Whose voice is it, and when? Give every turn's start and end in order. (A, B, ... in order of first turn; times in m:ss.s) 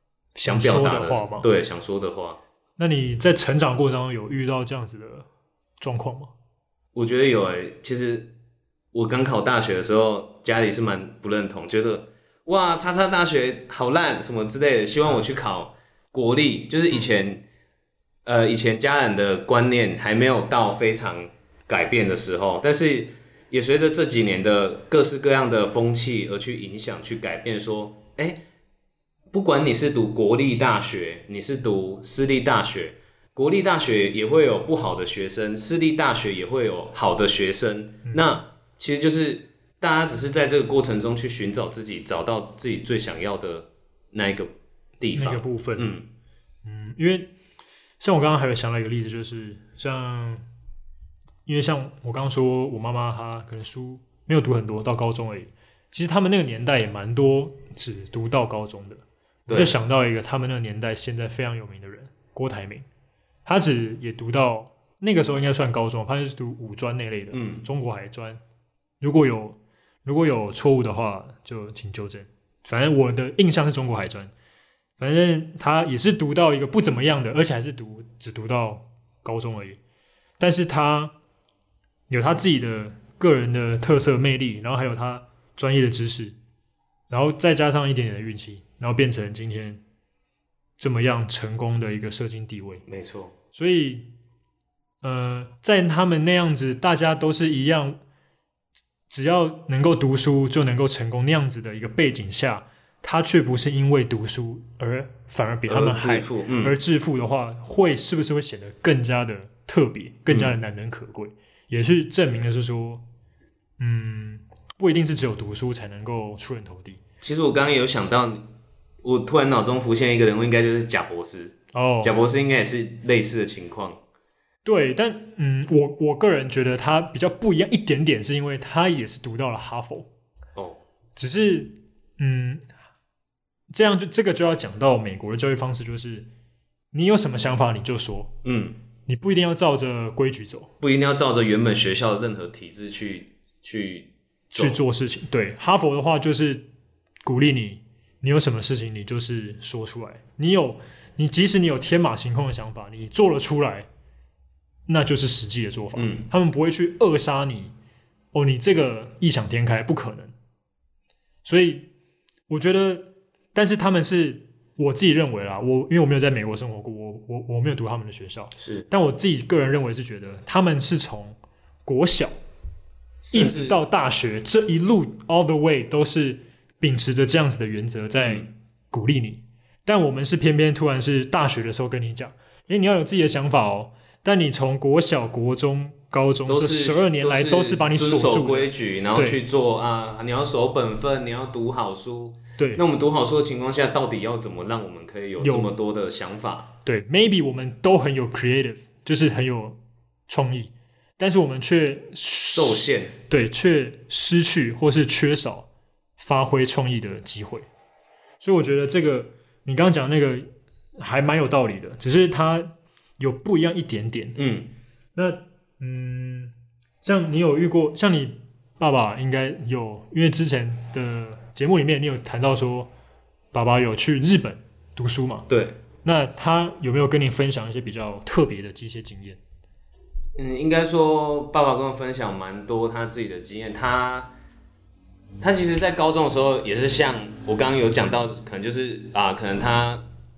0:00.3-0:01.5 A
0:00.4-0:02.4 B
0:02.8-0:05.3 A
0:05.8-0:06.3 A
0:06.9-0:08.3 B
0:08.9-0:17.4 B
0:18.2-0:28.4 B
0:29.3-0:46.1 B
0:45.1-0:45.9 A
0:46.6-0:47.3 A
0:48.0-0:50.4 A
0:51.4-1:02.9 A
0:59.5-0:59.7 B
1:03.4-1:08.4 A
1:07.3-1:07.6 B
1:09.0-1:14.3 A
1:15.0-1:19.8 A
1:20.4-1:21.1 A
1:22.1-1:26.4 A
1:27.1-1:29.8 A
1:30.8-1:32.8 A
1:32.9-1:33.3 B
1:33.5-1:34.1 A
1:35.0-1:38.0 A
1:39.1-1:53.0 A
1:45.7-1:46.8 B
1:50.3-1:50.6 B
1:53.8-1:57.0 A
1:57.2-1:58.5 B
1:59.0-2:04.0 B
2:01.7-2:02.1 A
2:04.6-2:10.1 A
2:10.5-2:10.8 B
2:11.2-2:12.6 A
2:13.7-2:16.3 A
2:16.9-2:18.3 A
2:18.4-2:18.8 B
2:19.1-2:20.7 A
2:20.8-2:24.8 B
2:24.5-2:26.6 A
2:27.2-2:33.9 A
2:34.9-2:37.7 A
2:36.0-2:36.3 B
2:38.3-2:40.3 A
2:41.4-2:41.9 A
2:42.5-2:52.3 A
2:48.6-2:48.8 B
2:53.2-2:53.8 B
2:53.3-3:09.4 A
2:58.2-2:58.5 B
3:06.5-3:16.7 B
3:15.4-3:15.7 A
3:16.8-3:25.7 A
3:22.5-3:23.2 B
3:26.2-3:27.7 A
3:28.4-3:30.4 A
3:31.0-3:34.4 A
3:34.4-3:34.7 B
3:35.1-3:42.9 A
3:43.5-3:45.5 A
3:45.5-3:45.8 B
3:46.0-3:49.4 A
3:50.4-3:54.3 B
3:55.4-4:00.0 B